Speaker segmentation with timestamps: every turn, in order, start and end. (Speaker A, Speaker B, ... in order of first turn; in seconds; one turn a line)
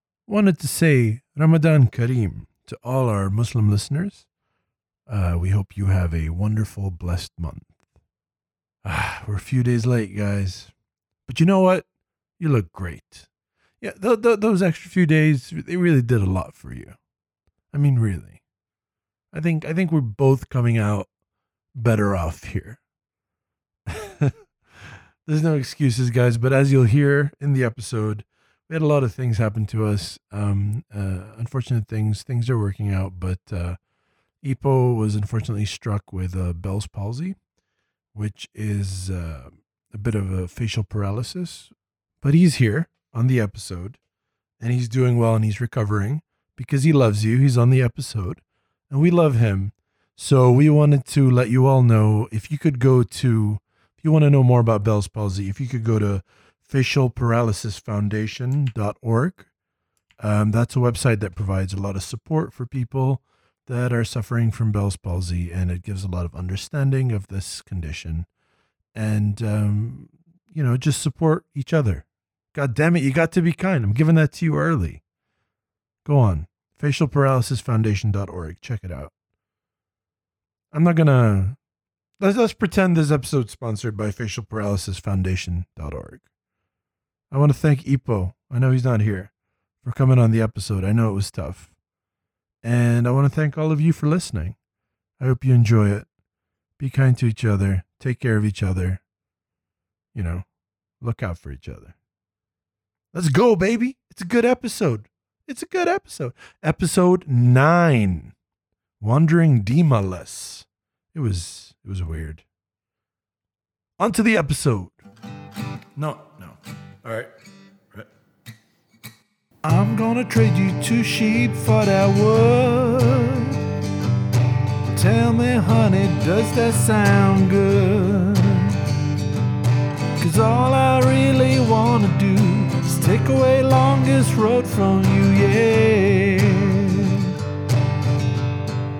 Speaker A: 0.3-4.2
Speaker A: 5.1-7.7
Speaker A: 8.8-10.7
Speaker A: 11.3-11.8
Speaker A: 12.4-13.3
Speaker A: 13.8-17.0
Speaker A: 17.7-18.4
Speaker A: 19.3-21.1
Speaker A: 21.7-22.8
Speaker A: 23.9-24.4
Speaker A: 25.2-33.8
Speaker A: 34.4-37.4
Speaker A: 38.1-44.0
Speaker A: 44.6-59.5
Speaker A: 60.2-68.3
Speaker A: 68.9-75.0
Speaker A: 76.0-79.1
Speaker A: 80.7-81.6
Speaker A: 82.2-86.2
Speaker A: 87.3-89.3
Speaker A: 89.8-91.7
Speaker A: 92.6-94.5
Speaker A: 95.2-96.1
Speaker A: 96.8-99.0
Speaker A: 100.1-100.5
Speaker A: 101.0-101.9
Speaker A: 103.1-108.3
Speaker A: 109.0-112.4
Speaker A: 114.0-115.0
Speaker A: 116.0-117.3
Speaker A: 119.6-123.6
Speaker A: 124.9-128.8
Speaker A: 130.2-137.4